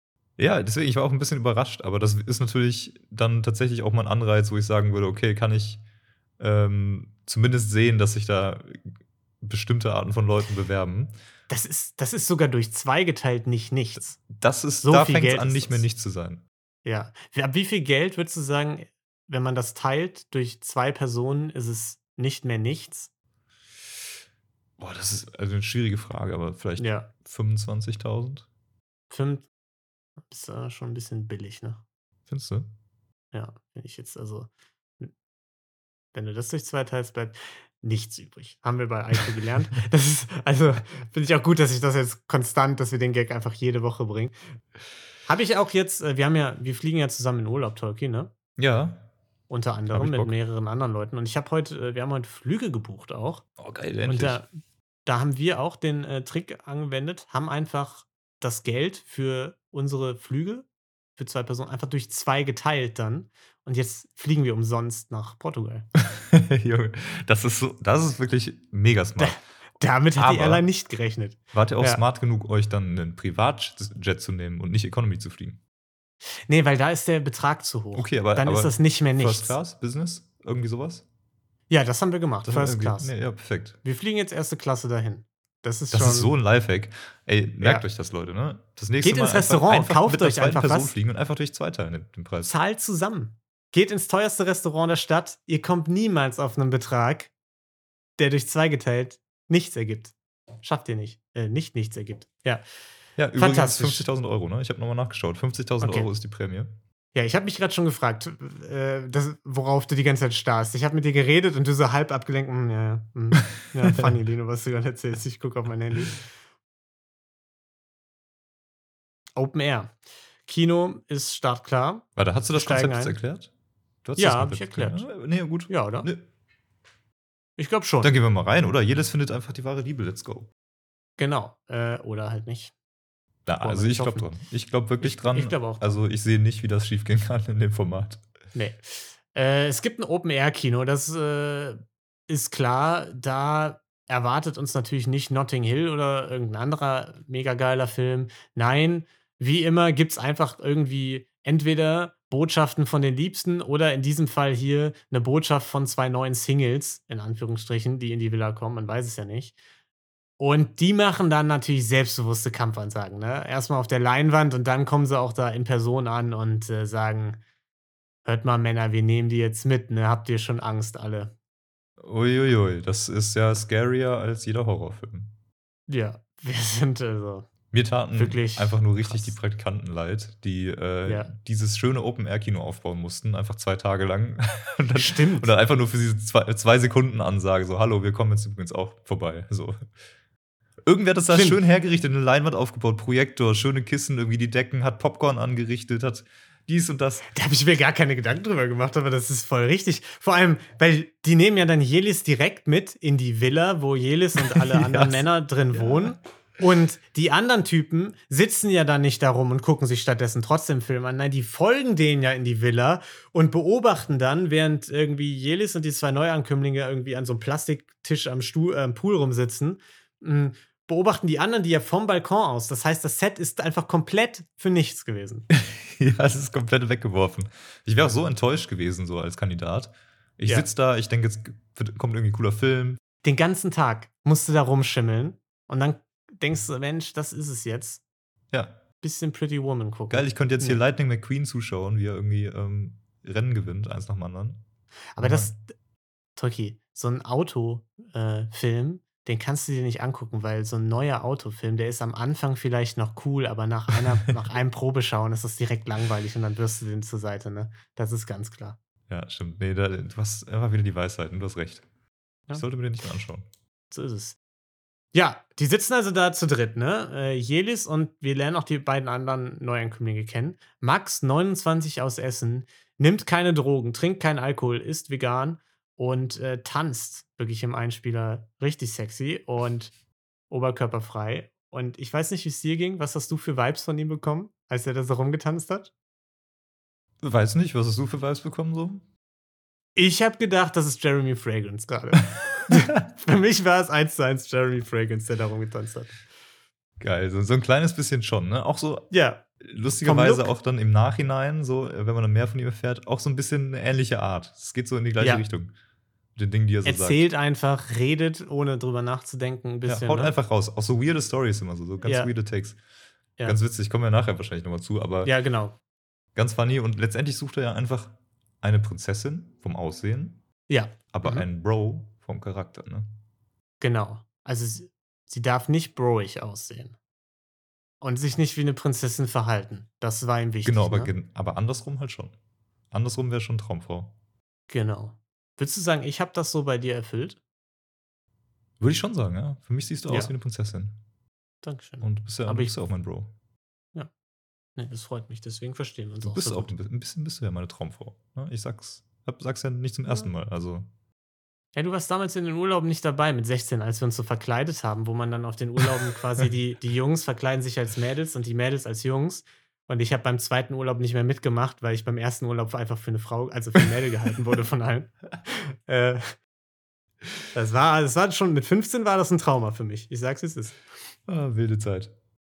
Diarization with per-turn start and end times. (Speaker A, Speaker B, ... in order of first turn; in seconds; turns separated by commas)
Speaker A: 0.4-5.8, Speaker A: 6.4-8.9, Speaker A: 9.4-11.1, Speaker B: 11.5-14.2, Speaker A: 14.2-16.4, Speaker B: 14.8-15.9, Speaker B: 16.9-23.1, Speaker A: 24.8-28.5, Speaker B: 26.8-27.1, Speaker B: 29.1-29.5, Speaker B: 30.3-31.8, Speaker A: 32.3-32.7, Speaker B: 33.3-34.5, Speaker B: 36.1-44.4, Speaker B: 45.3-48.3, Speaker A: 48.6-49.1, Speaker B: 49.5-53.4, Speaker A: 49.9-50.4, Speaker A: 53.6-54.4, Speaker B: 54.1-54.5, Speaker B: 55.1-65.9, Speaker A: 66.0-69.4, Speaker B: 69.2-72.0, Speaker A: 70.2-70.7, Speaker A: 71.5-75.6, Speaker B: 76.5-79.6, Speaker A: 78.0-81.0, Speaker B: 81.7-83.1, Speaker A: 82.5-83.8, Speaker B: 83.8-86.3, Speaker A: 85.9-92.5, Speaker B: 87.6-87.8, Speaker B: 89.0-91.0, Speaker B: 92.5-97.3, Speaker B: 98.2-102.7, Speaker A: 103.2-106.7, Speaker B: 103.3-104.1, Speaker B: 105.8-106.1, Speaker B: 107.2-116.3, Speaker B: 119.4-123.2, Speaker A: 122.2-123.5, Speaker A: 124.0-126.2, Speaker B: 124.2-125.1, Speaker B: 125.7-126.1, Speaker B: 127.6-128.1, Speaker A: 128.0-130.5, Speaker B: 131.2-132.7, Speaker A: 133.5-138.2, Speaker B: 133.6-134.3, Speaker B: 135.0-136.0, Speaker B: 138.5-159.6, Speaker B: 160.4-167.4, Speaker B: 168.2-171.3, Speaker A: 172.0-175.3, Speaker B: 175.9-177.5, Speaker A: 177.7-189.8, Speaker B: 178.2-179.3, Speaker B: 181.1-181.3, Speaker B: 184.9-185.5, Speaker A: 190.9-197.3, Speaker B: 191.3-191.6, Speaker B: 197.3-225.5, Speaker A: 204.4-206.1, Speaker A: 225.5-233.0, Speaker B: 233.2-238.0, Speaker A: 238.5-238.8, Speaker B: 239.0-240.8, Speaker A: 240.1-244.6, Speaker B: 245.2-245.7, Speaker A: 245.2-245.5, Speaker B: 246.4-258.8, Speaker A: 259.1-261.9, Speaker A: 262.5-263.5, Speaker B: 263.9-264.4, Speaker B: 265.1-279.9, Speaker B: 280.5-285.9, Speaker A: 287.2-289.0, Speaker B: 290.0-296.2, Speaker A: 297.0-305.7, Speaker B: 299.1-299.4, Speaker B: 300.0-300.5, Speaker B: 305.2-305.4, Speaker A: 306.4-307.2, Speaker B: 306.9-310.3, Speaker A: 309.9-312.8, Speaker B: 312.1-312.3, Speaker A: 313.4-315.3, Speaker B: 315.2-315.8, Speaker A: 316.4-320.4, Speaker B: 320.7-321.5, Speaker A: 321.1-323.1, Speaker B: 323.8-327.0, Speaker B: 328.0-331.1, Speaker A: 330.6-332.3, Speaker A: 332.9-334.1, Speaker B: 334.7-337.4, Speaker A: 338.8-341.0, Speaker B: 340.1-340.3, Speaker B: 341.6-342.7, Speaker A: 342.0-343.3, Speaker B: 344.8-346.7, Speaker A: 346.2-350.9, Speaker B: 351.8-366.4, Speaker B: 367.5-370.8, Speaker A: 371.3-372.1